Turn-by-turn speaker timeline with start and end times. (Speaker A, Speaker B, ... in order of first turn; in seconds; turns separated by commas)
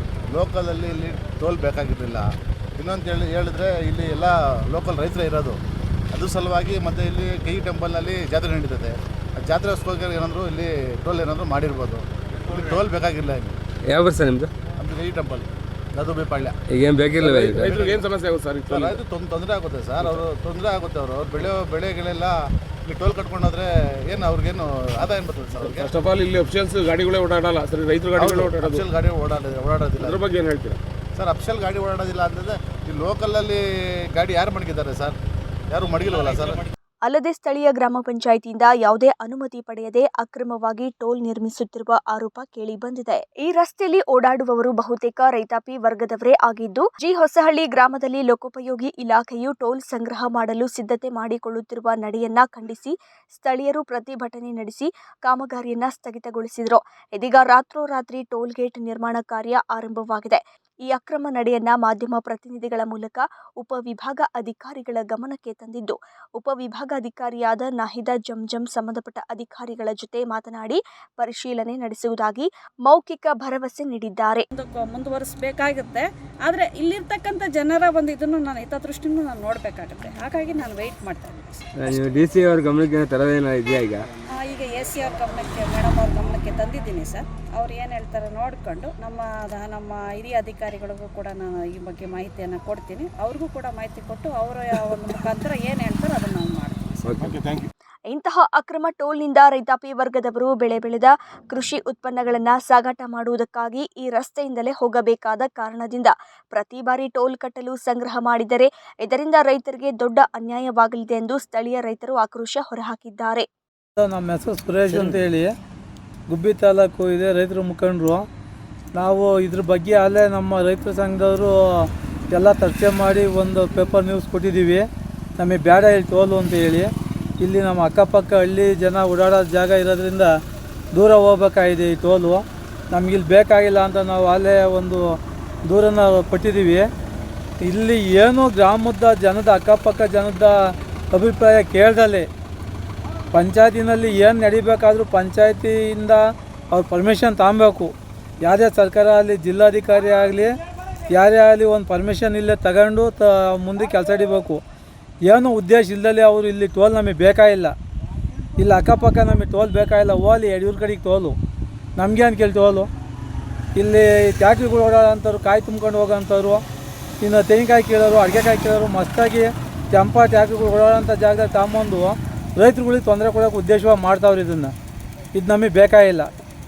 Speaker A: 0.3-5.6, Speaker A: 6.1-13.6, Speaker B: 13.8-14.5, Speaker A: 14.8-16.6, Speaker B: 16.7-17.7, Speaker C: 17.1-19.0, Speaker A: 17.5-18.1, Speaker A: 18.7-25.9, Speaker C: 25.6-28.8, Speaker A: 28.1-30.2, Speaker C: 30.0-30.8, Speaker A: 31.1-35.1, Speaker A: 35.7-36.6, Speaker D: 37.0-74.5, Speaker E: 74.5-82.2, Speaker B: 81.8-84.1, Speaker E: 84.4-97.1, Speaker B: 97.0-97.4, Speaker D: 98.1-113.4, Speaker F: 114.0-115.5, Speaker F: 116.3-118.2, Speaker F: 118.9-124.9, Speaker F: 125.4-130.3, Speaker F: 130.9-135.1, Speaker F: 135.6-136.9, Speaker F: 137.6-142.3, Speaker F: 143.3-150.6, Speaker F: 151.1-154.6, Speaker F: 155.2-157.7, Speaker F: 158.6-161.4, Speaker F: 161.9-162.9, Speaker F: 163.8-166.6, Speaker F: 167.2-174.7, Speaker F: 175.3-176.3